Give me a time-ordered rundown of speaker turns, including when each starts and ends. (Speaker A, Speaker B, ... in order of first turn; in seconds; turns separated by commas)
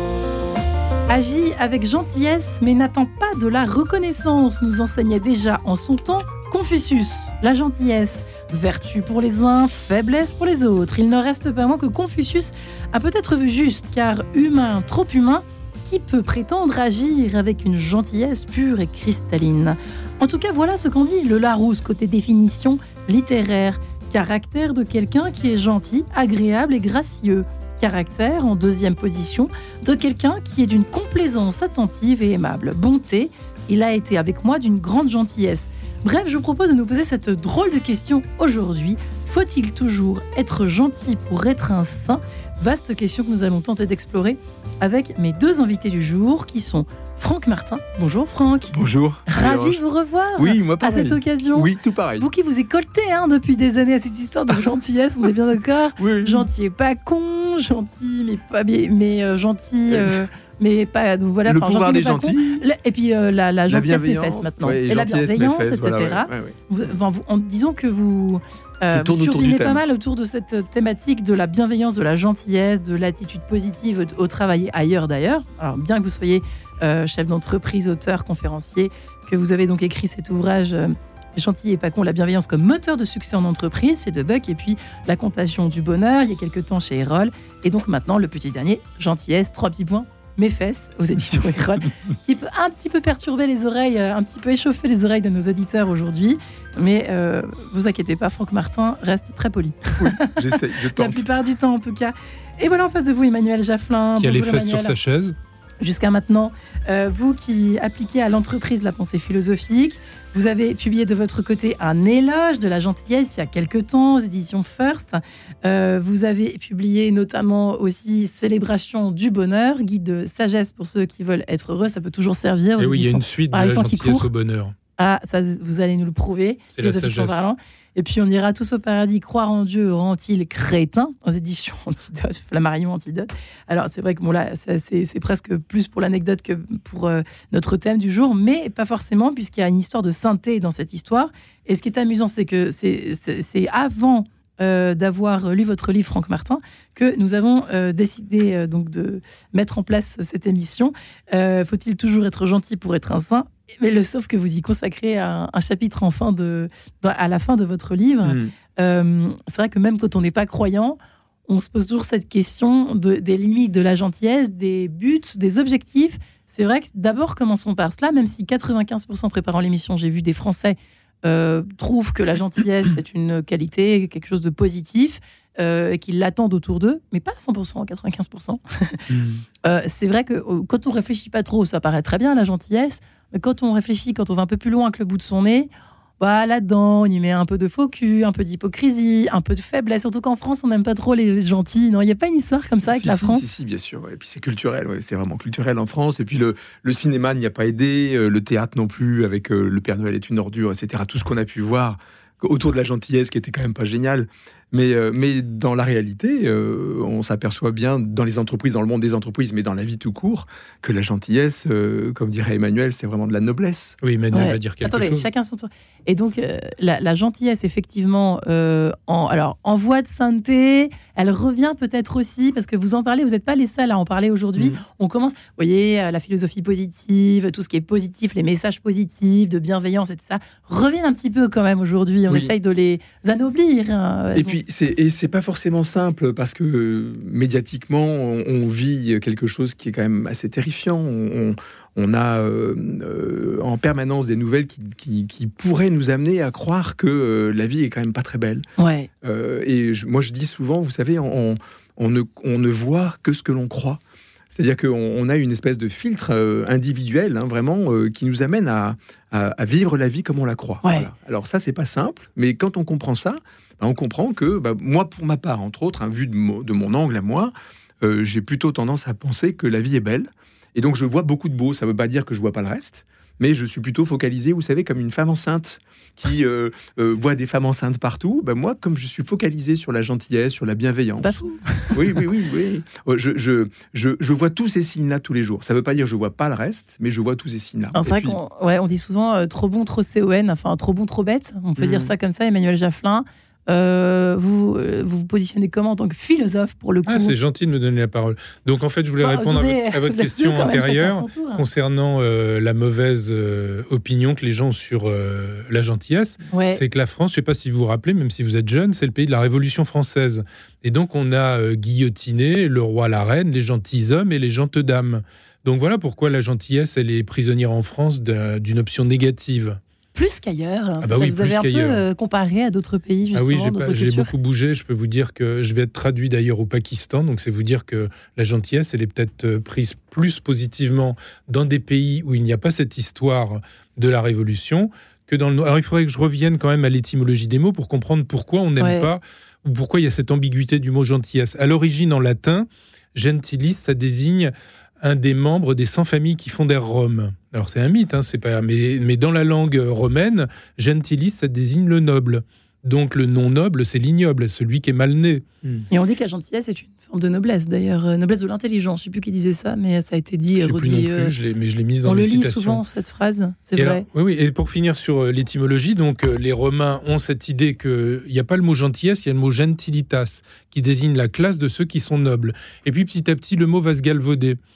Speaker A: 1.1-48.8, Speaker B: 48.7-49.8, Speaker A: 49.3-104.9, Speaker B: 50.4-52.3, Speaker B: 56.0-56.5, Speaker B: 59.9-60.2, Speaker B: 61.5-62.6, Speaker B: 63.7-66.6, Speaker B: 68.9-69.8, Speaker B: 100.0-101.2, Speaker C: 104.2-105.3, Speaker A: 105.8-124.3, Speaker C: 122.8-124.7, Speaker A: 125.0-179.1, Speaker C: 126.7-127.4, Speaker B: 158.2-158.5, Speaker B: 179.1-179.4, Speaker A: 179.6-193.4, Speaker B: 192.8-213.9, Speaker C: 214.0-215.2, Speaker A: 214.3-234.6, Speaker B: 234.3-248.6, Speaker A: 248.8-249.1, Speaker B: 249.2-281.4, Speaker A: 260.8-261.1, Speaker A: 281.2-282.2, Speaker B: 281.9-288.4, Speaker A: 287.9-297.3, Speaker B: 291.8-292.1, Speaker C: 297.1-319.8, Speaker A: 299.2-301.6, Speaker A: 306.5-306.8, Speaker A: 320.1-324.3, Speaker C: 321.0-322.0, Speaker C: 323.3-355.4, Speaker A: 338.8-339.1, Speaker A: 355.9-361.3, Speaker C: 360.6-362.8, Speaker A: 362.0-364.1, Speaker C: 363.8-374.6